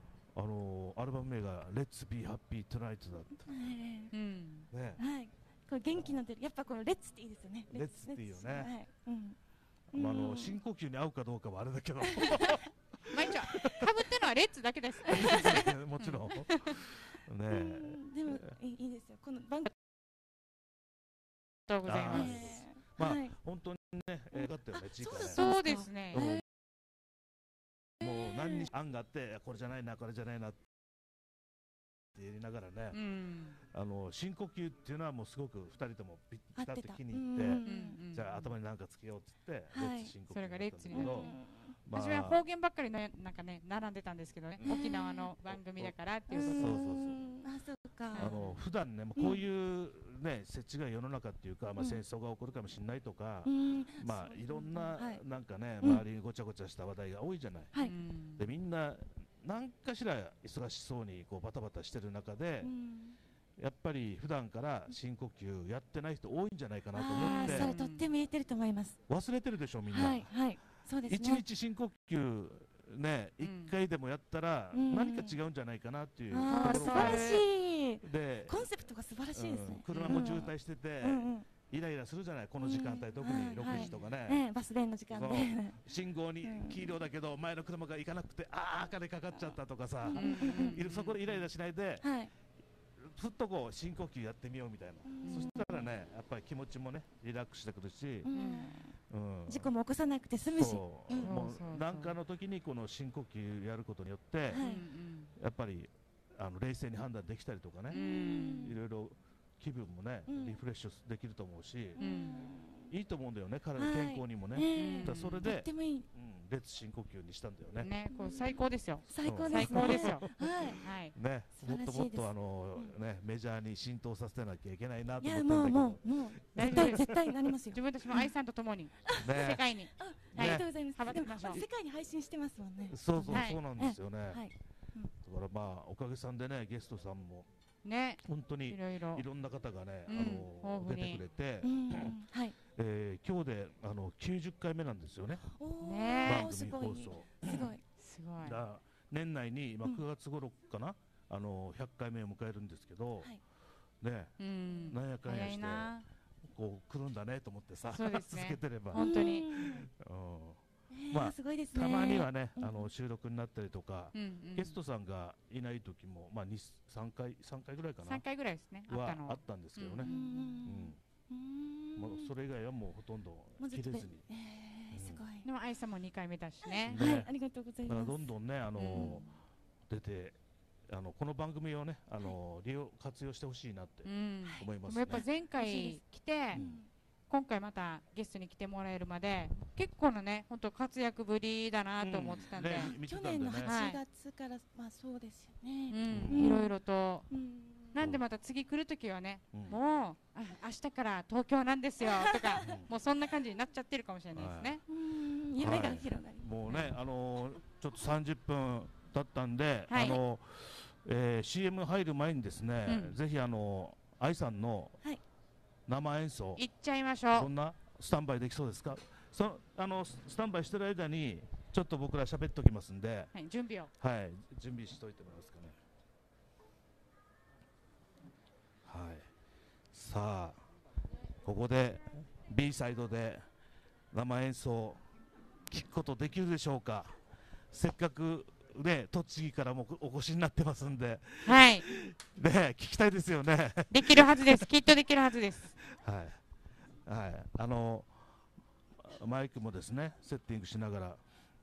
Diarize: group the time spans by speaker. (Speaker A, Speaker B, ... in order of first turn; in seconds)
Speaker A: 0.3-3.6, 4.7-5.0, 7.7-8.7, 9.9-13.9, 15.1-18.6, 21.8-25.5, 26.1-26.4, 28.0-30.6, 32.1-33.0, 33.7-42.4, 44.6-44.8, 45.5-47.2, 48.1-57.7, 58.4-62.7, 63.6-67.7, 69.1-70.3, 71.0-77.4, 78.0-78.8, 79.3-84.4, 85.1-92.1, 93.0-98.3, 99.1-99.7, 100.5-104.7, 105.4-108.0, 108.6-112.0, 112.9-117.9, 119.2-120.5, 121.1-127.1, 129.2-129.6, 130.3-130.7, 132.9-134.4, 135.2-137.5, 138.2-142.2, 142.8-145.4, 146.2-147.7, 148.4-153.3, 154.0-155.9, 156.5-168.2, 168.9-170.1, 170.6-171.0, 171.9-174.3, 174.9-175.2, 176.9-177.3, 177.9-179.3, 179.9-180.4, 180.9-185.3, 186.5-186.8, 192.0-193.8, 196.1-196.6, 199.5-199.8, 202.6-202.9, 204.3-204.8, 205.6-215.0, 215.9-216.7, 217.3-223.3, 224.0-225.8, 228.8-229.3, 229.9-230.6, 231.4-233.5, 234.1-235.0, 235.7-237.2, 237.7-244.7, 245.8-246.4, 247.1-248.1, 249.0-251.2
Speaker B: 3.5-4.1, 5.0-9.4, 9.9-10.6, 15.1-15.7, 17.5-19.7, 22.1-23.4, 24.3-26.4, 36.5-38.0, 39.7-40.1, 40.9-41.8, 44.6-45.3, 46.3-48.4, 49.2-49.4, 51.8-52.0, 53.5-55.2, 62.6-63.2, 67.0-69.0, 69.9-71.4, 74.7-75.4, 76.3-81.5, 82.6-85.8, 86.4-86.9, 90.0-90.8, 92.0-92.3, 95.1-95.9, 98.2-99.0, 99.5-101.4, 104.5-104.8, 107.9-108.8, 110.3-110.6, 112.0-112.9, 113.8-116.1, 118.1-120.9, 121.6-123.0, 125.2-128.3, 129.0-135.1, 141.6-142.6, 145.3-147.8, 158.9-159.9, 160.9-162.9, 170.0-172.3, 173.6-175.5, 176.6-178.3, 178.9-179.2, 185.6-186.0, 186.5-186.9, 192.7-196.8, 197.3-198.0, 202.1-202.8, 204.9-206.6
Speaker C: 4.1-4.7, 13.1-16.8, 21.7-22.6, 25.3-26.3, 32.9-33.6, 37.6-38.5, 40.3-41.4, 41.9-46.8, 48.1-48.6, 57.8-58.5, 67.2-68.1, 73.4-73.8, 76.5-77.4, 79.9-80.5, 83.6-84.0, 90.1-91.5, 95.2-95.5, 98.3-98.8, 101.2-102.2, 104.5-105.3, 107.9-108.8, 112.0-112.5, 114.8-115.5, 117.8-121.2, 126.6-131.7, 133.3-133.6, 137.8-139.2, 140.1-141.2, 145.8-146.5, 147.5-148.6, 154.4-156.1, 157.9-159.5, 164.1-164.8, 168.0-170.6, 175.4-177.1, 178.8-179.2, 184.1-186.6, 187.3-193.0, 193.6-194.0, 195.9-197.3, 197.9-204.8, 206.7-207.0, 209.9-210.2, 212.9-213.2, 216.6-217.5, 223.3-223.9, 241.4-241.9, 243.9-245.8